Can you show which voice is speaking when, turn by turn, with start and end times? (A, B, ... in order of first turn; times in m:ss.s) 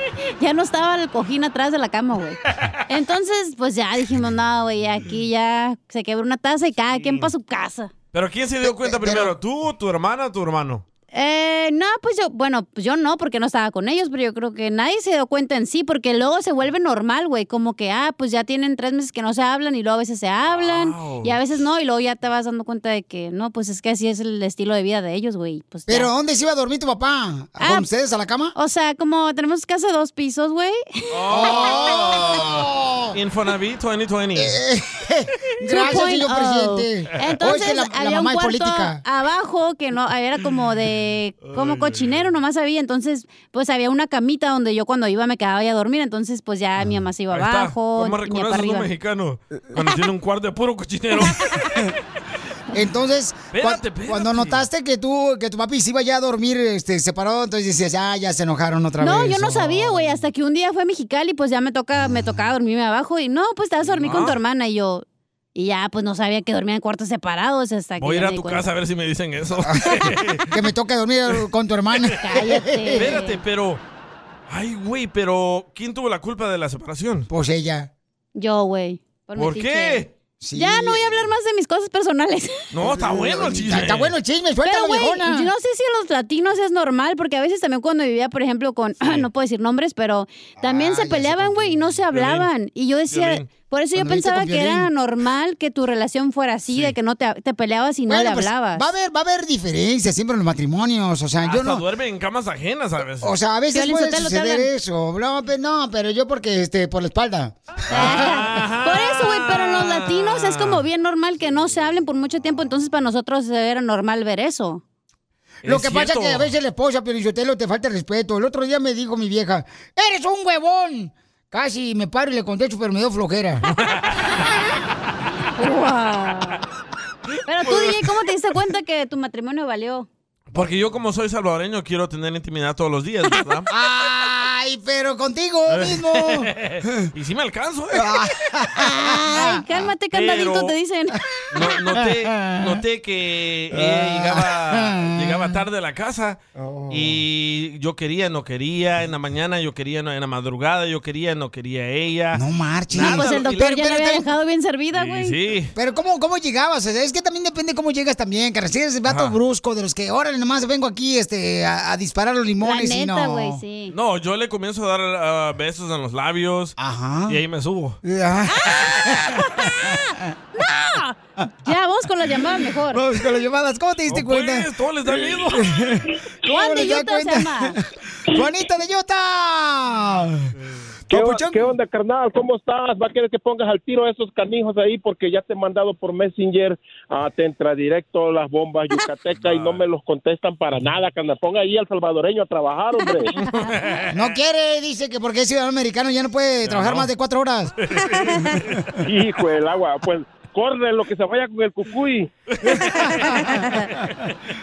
0:00.4-0:07.9 A
0:02.5-0:02.8 B
0:06.9-0:07.3 B
0:08.1-0:10.8 B
0:08.6-0:09.3 C
0:11.1-0:26.1 A
0:20.5-0:21.4 B
0:25.9-0:28.5 C
0:27.6-0:27.9 A
0:28.5-0:30.8 A
0:31.1-0:34.6 B
0:31.3-0:33.2 C
0:34.3-0:39.0 C
0:35.7-0:48.9 A
0:41.4-0:42.3 B
0:47.3-0:51.8 B
0:52.7-1:00.2 C
0:53.5-0:54.6 B
0:59.0-1:05.0 A
1:03.9-1:04.4 B
1:05.5-1:08.6 A
1:08.0-1:10.6 B
1:10.5-1:13.1 C
1:12.2-1:13.4 A
1:12.9-1:13.8 B
1:14.5-1:17.3 B
1:17.3-1:17.9 C
1:18.3-1:20.0 A
1:19.4-1:20.1 B
1:20.4-1:21.2 C
1:20.5-1:22.7 A
1:22.7-1:24.1 B
1:22.8-1:25.5 C
1:24.6-1:38.8 A
1:30.6-1:32.0 C
1:32.1-1:32.5 B
1:33.1-1:33.5 B
1:34.0-1:34.9 C
1:36.7-1:36.9 B
1:38.1-1:41.8 C
1:41.4-1:43.3 B
1:43.2-1:48.6 C
1:43.7-1:44.7 A
1:47.9-1:50.8 B
1:47.9-1:54.8 A
1:55.6-1:56.5 B
1:55.6-2:03.6 C
2:05.6-2:06.6 A
2:07.4-2:10.1 A
2:07.6-2:08.0 B
2:10.5-2:13.7 B
2:13.7-2:17.0 C
2:15.7-2:18.3 B
2:17.9-2:19.6 C
2:19.0-2:21.2 A
2:20.1-2:20.7 B
2:21.5-2:33.6 B
2:21.9-2:22.8 C
2:23.7-2:25.6 C
2:32.3-2:34.3 C
2:33.0-2:35.4 A
2:34.9-2:35.7 B
2:35.7-2:43.6 C
2:39.0-2:39.4 B
2:42.6-2:43.9 A
2:43.9-2:46.8 B
2:46.8-2:47.4 C
2:47.3-2:48.0 B
2:48.0-2:50.3 C
2:48.5-2:53.0 A
2:52.9-2:54.7 C
2:54.1-2:55.7 B
2:55.3-3:00.5 C
2:56.5-2:57.7 A
3:00.6-3:00.8 B
3:01.1-3:01.7 C
3:01.1-3:13.3 D
3:09.4-3:09.8 B
3:13.4-3:14.1 B
3:14.1-3:17.7 C
3:16.6-3:17.1 B
3:17.8-3:18.9 B
3:18.1-3:18.5 A
3:19.0-3:22.3 D
3:22.5-3:24.3 B
3:22.6-3:23.9 C
3:23.5-3:23.7 A